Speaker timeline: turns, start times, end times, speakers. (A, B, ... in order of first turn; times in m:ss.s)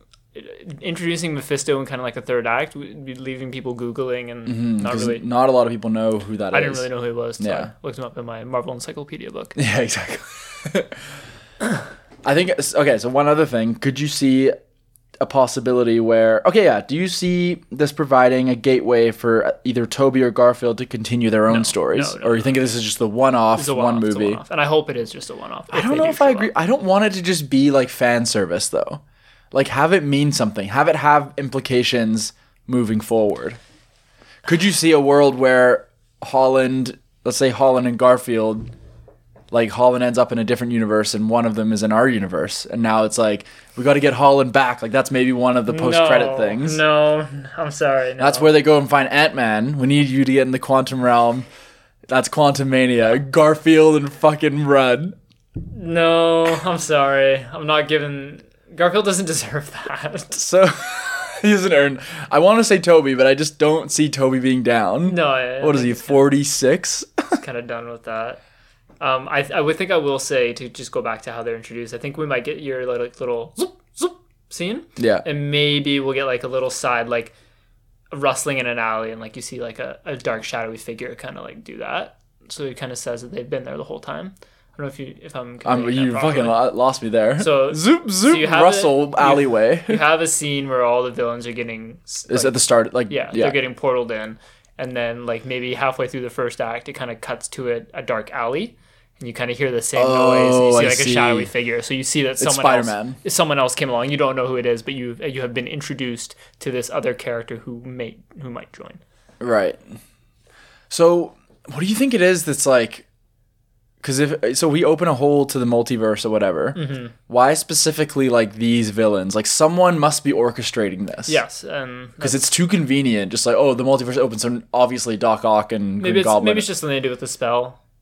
0:00.3-0:05.2 A
0:04.4-0:06.9 B
0:06.5-0:09.6 A
0:07.4-0:07.7 B
0:09.6-0:11.0 B
0:12.2-0:14.5 B
0:15.2-0:24.4 B
0:21.5-0:22.6 A
0:23.5-0:26.5 A
0:25.7-0:29.0 B
0:29.5-0:33.6 B
0:34.4-0:38.7 B
0:39.5-0:46.8 B
0:45.7-0:48.5 A
0:48.2-0:51.4 B
0:52.1-0:55.2 B
0:55.7-1:00.3 A
1:00.3-1:07.4 B
1:05.0-1:06.3 A
1:07.4-1:08.4 A
1:09.0-1:17.3 A
1:15.0-1:15.2 B
1:18.1-1:26.6 A
1:25.6-1:30.0 B
1:27.4-1:49.0 A
1:32.3-1:33.6 B
1:40.0-1:41.5 B
1:42.4-1:43.2 B
1:49.4-1:49.8 B
1:50.9-1:53.0 B
1:54.0-2:01.4 B
1:56.7-1:57.1 A
2:01.3-2:02.4 A
2:02.2-2:06.7 B
2:06.0-2:07.8 A